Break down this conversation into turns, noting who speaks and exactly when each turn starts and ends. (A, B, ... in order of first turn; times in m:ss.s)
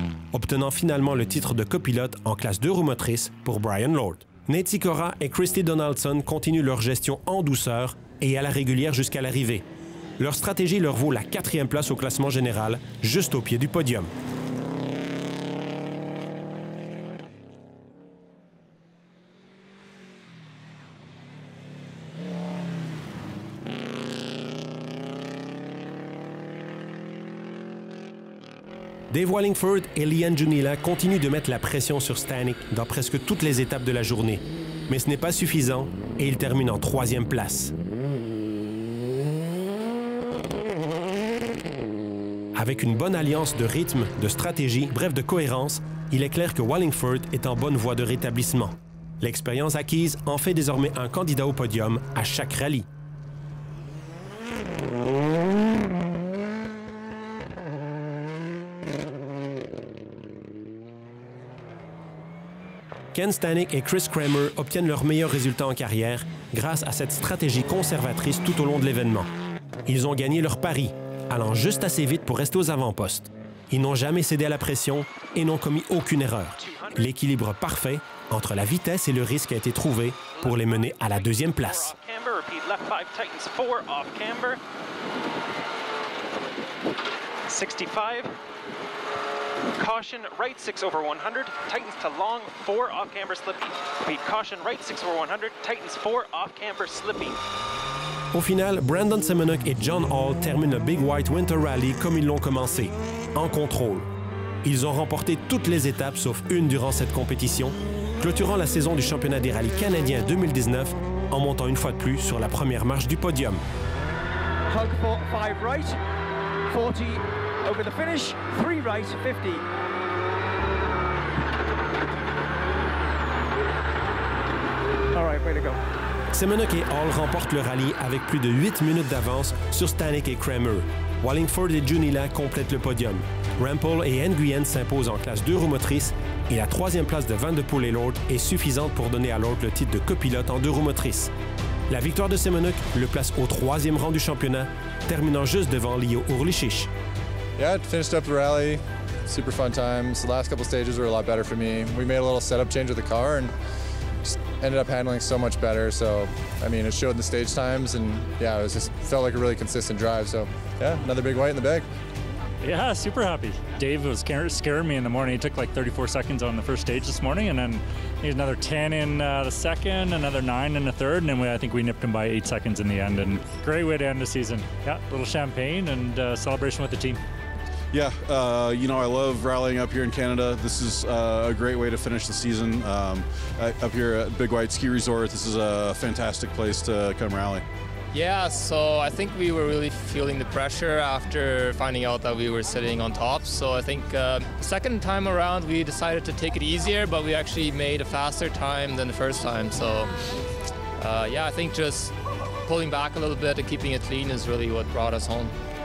0:00.3-0:09.7 A
0:10.2-0:14.1 A
0:29.1-0:37.7 A
0:42.6-0:52.9 A
1:03.1-1:09.3 A
1:09.9-1:22.0 A
1:16.6-1:17.1 B
1:20.4-1:24.6 B
1:27.5-1:28.4 B
1:29.8-1:37.4 B
1:38.3-1:44.1 A
1:44.6-1:53.6 A
1:54.7-1:56.0 C
1:56.7-1:59.7 C
2:05.1-2:05.8 C
2:06.3-2:21.3 A
2:21.9-2:26.9 A
2:27.6-2:33.5 D
2:34.6-2:41.9 D
2:42.6-2:57.2 E
2:57.9-3:07.6 F
3:08.1-3:20.1 G
3:21.0-3:22.1 G
3:22.6-3:25.6 G